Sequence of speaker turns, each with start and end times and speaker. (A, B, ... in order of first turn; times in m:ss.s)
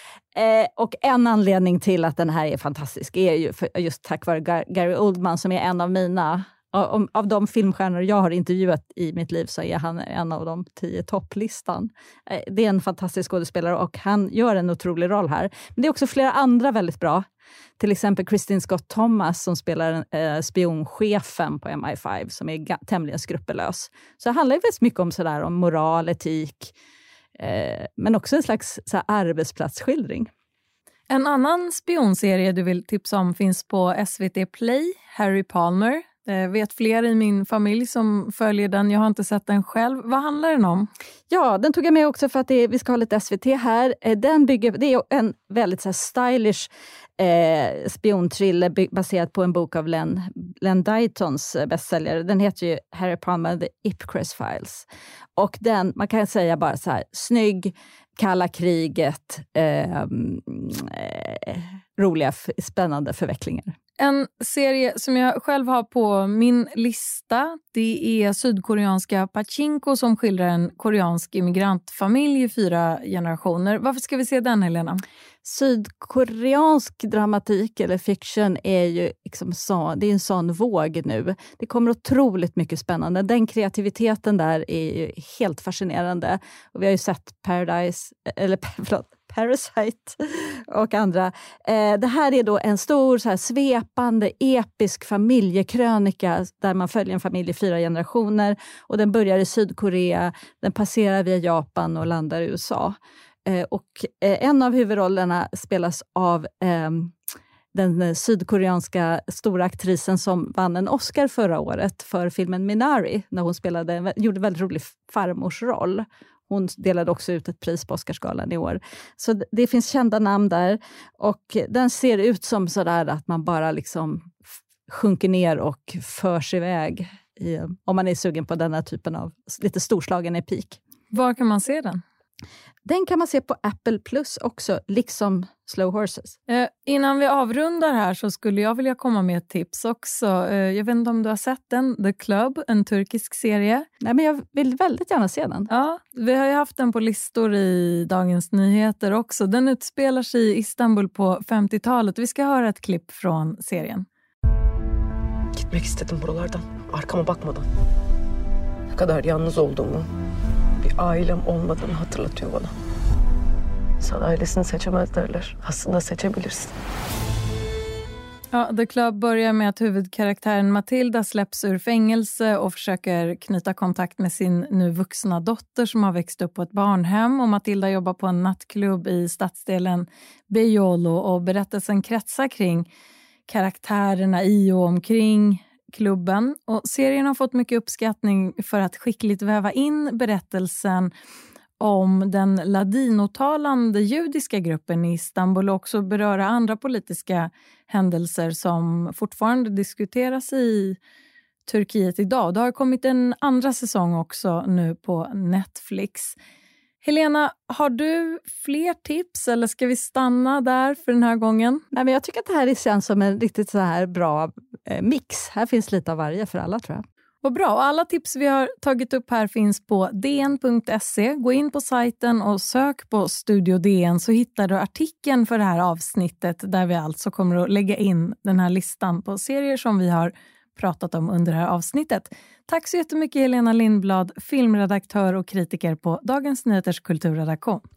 0:00.4-0:17.2 A
0:17.8-0:26.7 A
0:27.4-0:30.3 A
0:31.1-0:40.9 B
0:41.3-0:54.9 A
0:55.4-1:03.7 A
1:04.0-1:15.0 B
1:15.4-1:47.2 A
1:47.7-2:10.8 A
2:11.1-2:12.0 B
2:12.9-2:16.4 A
2:16.5-2:23.9 B
2:24.0-2:25.7 A
2:25.7-2:34.1 B
2:35.6-2:37.7 C
2:38.9-2:40.1 C
2:40.8-2:42.7 C
2:44.0-2:46.7 C
2:48.5-3:02.9 B
3:03.5-3:11.1 B
3:11.8-3:21.0 B
3:21.6-3:26.4 B
3:27.0-3:31.8 B
3:31.9-3:37.0 A
3:37.4-3:57.8 B